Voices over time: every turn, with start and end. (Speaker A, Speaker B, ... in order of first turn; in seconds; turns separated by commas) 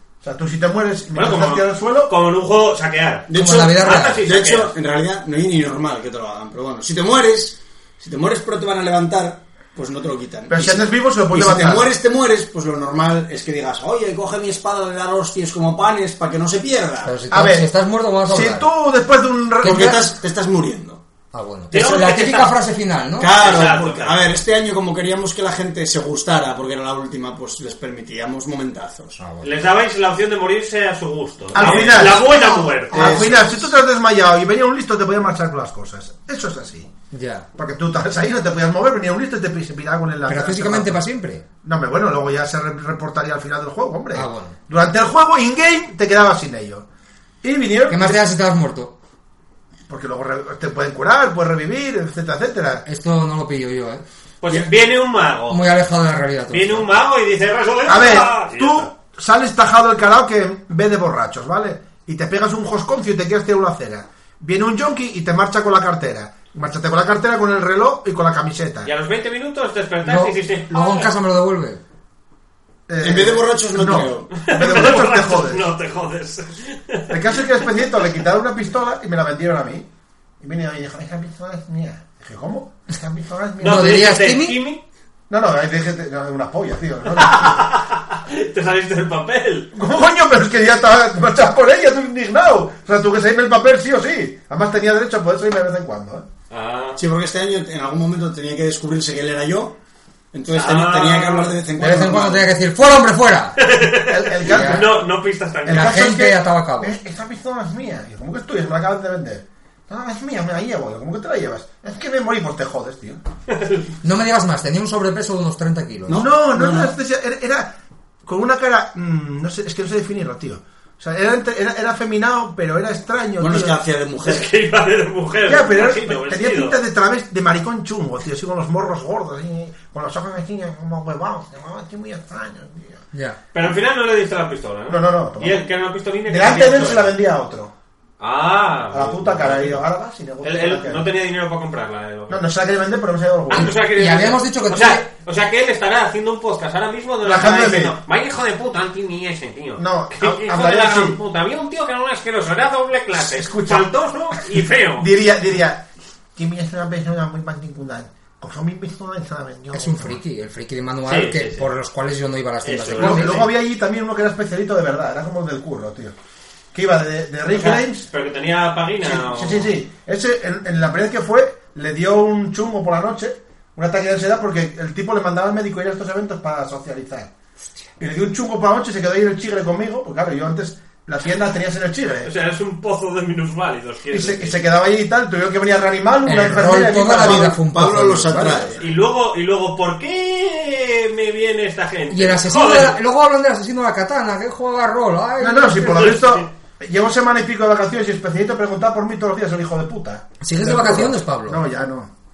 Speaker A: 0.2-2.1, Speaker B: 1.1-4.7, Speaker C: 3.3-17.2, Speaker D: 3.3-4.3, Speaker A: 10.5-11.9, Speaker D: 17.1-18.7, Speaker A: 17.3-17.7, Speaker A: 18.3-20.1, Speaker D: 19.6-20.0, Speaker C: 19.6-21.0, Speaker D: 21.3-23.5, Speaker B: 21.7-22.5, Speaker C: 21.7-22.0, Speaker C: 23.2-29.2, Speaker B: 23.3-24.3, Speaker D: 29.2-29.7, Speaker B: 29.4-33.4, Speaker A: 31.5-36.9, Speaker C: 31.6-33.6, Speaker D: 37.1-37.5, Speaker A: 37.6-41.0, Speaker D: 40.3-41.4, Speaker A: 41.6-46.9, Speaker D: 44.1-44.6, Speaker A: 47.4-48.3, Speaker D: 47.9-49.0, Speaker A: 49.9-52.9, Speaker D: 52.9-54.0, Speaker B: 54.4-55.6, Speaker D: 55.5-56.9, Speaker B: 56.5-58.9, Speaker A: 57.9-68.9, Speaker B: 68.9-71.1, Speaker D: 70.0-71.8, Speaker A: 72.9-75.7, Speaker C: 73.0-74.3, Speaker B: 74.3-77.9, Speaker A: 77.1-79.9, Speaker A: 80.4-84.0, Speaker B: 83.6-84.8, Speaker D: 83.6-84.6, Speaker A: 85.3-87.7, Speaker B: 87.1-89.7, Speaker A: 89.7-96.3, Speaker B: 96.5-97.0, Speaker C: 97.0-99.8, Speaker C: 100.3-102.5, Speaker B: 100.5-101.6, Speaker D: 101.8-103.6, Speaker B: 103.6-106.0, Speaker A: 104.1-105.0, Speaker D: 104.5-104.9, Speaker A: 105.7-113.2, Speaker D: 105.7-106.9, Speaker B: 113.5-113.9, Speaker D: 114.0-116.2, Speaker C: 116.1-116.9, Speaker A: 116.1-117.7, Speaker A: 118.2-123.8, Speaker C: 123.4-124.5, Speaker B: 124.2-126.8, Speaker A: 125.5-133.0, Speaker D: 133.1-133.4, Speaker B: 133.5-137.1, Speaker A: 134.9-135.7, Speaker A: 136.3-137.7, Speaker B: 138.2-139.8, Speaker A: 138.9-141.1, Speaker B: 140.4-142.4, Speaker A: 142.3-143.7, Speaker B: 143.5-155.1, Speaker D: 143.5-145.0, Speaker A: 147.2-148.0, Speaker A: 149.8-151.2, Speaker A: 153.2-153.9, Speaker A: 155.0-160.2, Speaker D: 159.7-163.5, Speaker B: 161.1-161.7, Speaker B: 162.6-163.5, Speaker A: 163.0-166.2, Speaker A: 166.7-168.1, Speaker B: 167.5-169.7, Speaker A: 169.0-177.3, Speaker A: 178.0-182.3, Speaker B: 182.2-184.6, Speaker A: 184.1-187.6, Speaker D: 186.2-188.7, Speaker C: 187.2-188.8, Speaker A: 188.4-188.8, Speaker B: 188.8-193.0, Speaker D: 192.1-196.2, Speaker A: 195.4-202.1, Speaker B: 196.0-196.5, Speaker D: 200.4-201.6